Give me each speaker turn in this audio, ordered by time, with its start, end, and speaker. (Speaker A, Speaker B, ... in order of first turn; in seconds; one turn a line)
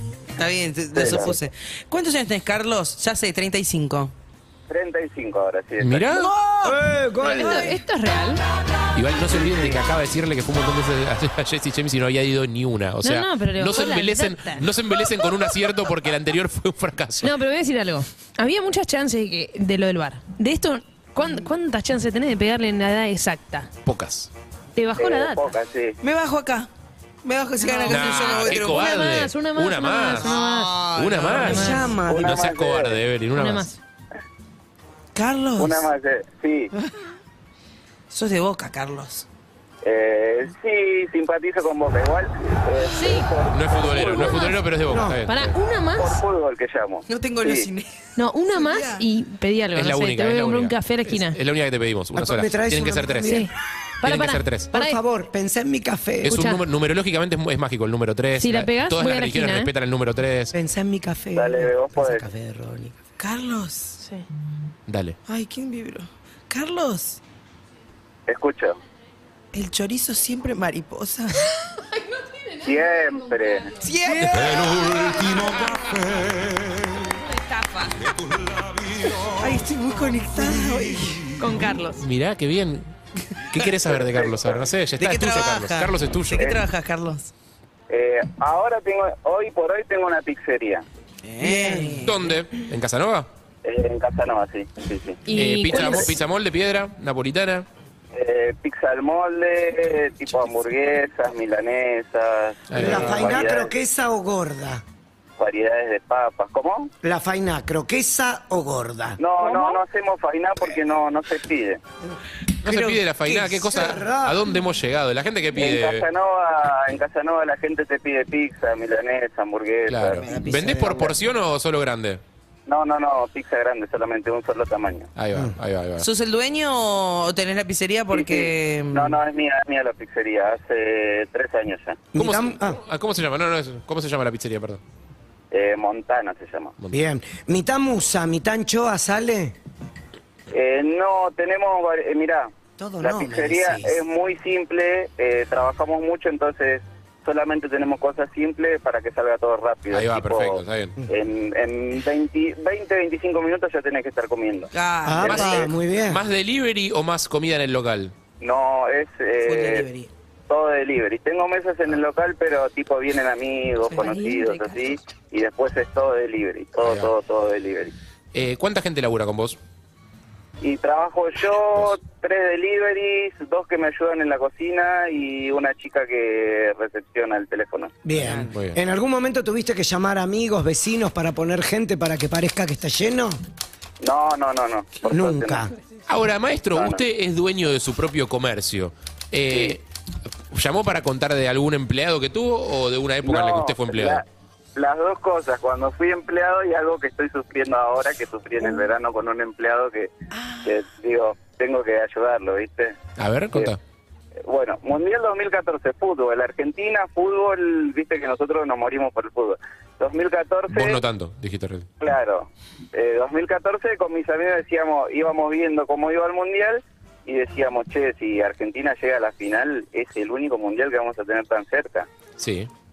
Speaker A: 0.4-4.1
Speaker B: 0.9-1.3
Speaker B: 4.7-6.2
Speaker C: 5.8-6.3
Speaker A: 6.1-7.7
Speaker D: 6.6-7.8
Speaker E: 7.2-8.4
Speaker C: 8.9-17.3
Speaker E: 13.0-14.7
Speaker E: 17.2-23.7
Speaker C: 23.8-24.3
Speaker E: 24.7-25.5
Speaker B: 25.0-26.0
Speaker A: 26.0-26.7
Speaker A: 27.2-29.2
Speaker E: 27.6-30.8
Speaker C: 27.9-30.3
Speaker A: 30.1-32.0
Speaker C: 30.9-33.7
Speaker E: 31.4-32.0
Speaker D: 31.5-32.3
Speaker B: 32.0-33.0
Speaker E: 33.3-33.8
Speaker A: 35.1-35.9
Speaker B: 35.6-36.7
Speaker A: 38.1-39.2
Speaker B: 39.8-44.5
Speaker E: 42.9-43.3
Speaker C: 43.5-45.5
Speaker E: 43.9-44.7
Speaker D: 44.9-45.2
Speaker E: 45.2-46.2
Speaker B: 46.0-47.7
Speaker A: 47.1-49.0
Speaker E: 48.2-51.4
Speaker C: 49.7-53.5
Speaker D: 52.1-53.4
Speaker E: 53.2-55.0
Speaker C: 54.0-54.7
Speaker D: 54.7-56.4
Speaker C: 56.2-60.5
Speaker E: 56.2-56.6
Speaker E: 58.3-59.7
Speaker D: 60.5-62.9
Speaker B: 61.3-62.2
Speaker A: 63.2-64.0
Speaker C: 64.9-65.2
Speaker A: 65.2-67.2
Speaker B: 68.3-68.8
Speaker A: 69.5-71.5
Speaker E: 71.7-73.8
Speaker B: 72.6-73.7
Speaker A: 73.8-76.0
Speaker D: 74.0-75.3
Speaker C: 74.3-75.0
Speaker E: 74.7-76.1
Speaker E: 76.9-78.1
Speaker A: 79.2-81.4
Speaker E: 81.4-82.1
Speaker C: 82.0-82.9
Speaker C: 83.5-86.5
Speaker B: 84.0-84.6
Speaker A: 85.0-87.3
Speaker B: 86.3-86.6
Speaker B: 87.9-90.8
Speaker A: 91.2-92.2
Speaker D: 91.4-92.0
Speaker C: 92.0-93.3
Speaker B: 93.6-95.2
Speaker E: 95.2-96.2
Speaker C: 95.3-97.7
Speaker B: 98.1-103.7
Speaker C: 102.7-103.3
Speaker D: 102.7-104.8
Speaker B: 105.4-106.9
Speaker D: 107.0-109.2
Speaker B: 109.2-111.8
Speaker C: 112.6-116.1
Speaker A: 112.7-112.9
Speaker D: 113.2-114.5
Speaker B: 115.5-120.4
Speaker C: 119.9-122.2
Speaker A: 120.2-121.1
Speaker B: 122.7-125.1
Speaker C: 125.2-126.1
Speaker A: 126.0-129.2
Speaker B: 128.1-132.0
Speaker D: 132.1-132.8
Speaker C: 132.2-134.8
Speaker B: 135.5-136.7
Speaker D: 136.9-139.6
Speaker B: 140.5-154.7
Speaker D: 142.8-144.0
Speaker C: 149.9-150.9
Speaker A: 154.7-155.7
Speaker D: 155.0-156.2
Speaker B: 155.2-155.6
Speaker C: 155.2-158.1
Speaker B: 158.4-159.8
Speaker A: 159.4-160.1
Speaker B: 160.5-167.9
Speaker A: 163.9-164.6
Speaker C: 166.8-167.1
Speaker C: 168.3-169.6
Speaker B: 170.6-177.9
Speaker D: 178.0-183.4
Speaker A: 178.2-178.5
Speaker C: 178.3-178.8
Speaker B: 184.0-185.7
Speaker D: 185.1-185.7
Speaker C: 186.1-189.8
Speaker B: 186.7-187.0
Speaker B: 189.5-189.8
Speaker C: 190.5-194.2
Speaker B: 193.2-194.2
Speaker B: 194.7-200.1
Speaker A: 200.3-200.7
Speaker B: 200.6-202.9
Speaker C: 203.2-203.8
Speaker B: 204.4-211.0
Speaker C: 210.7-211.8
Speaker B: 212.0-222.1
Speaker C: 222.4-222.7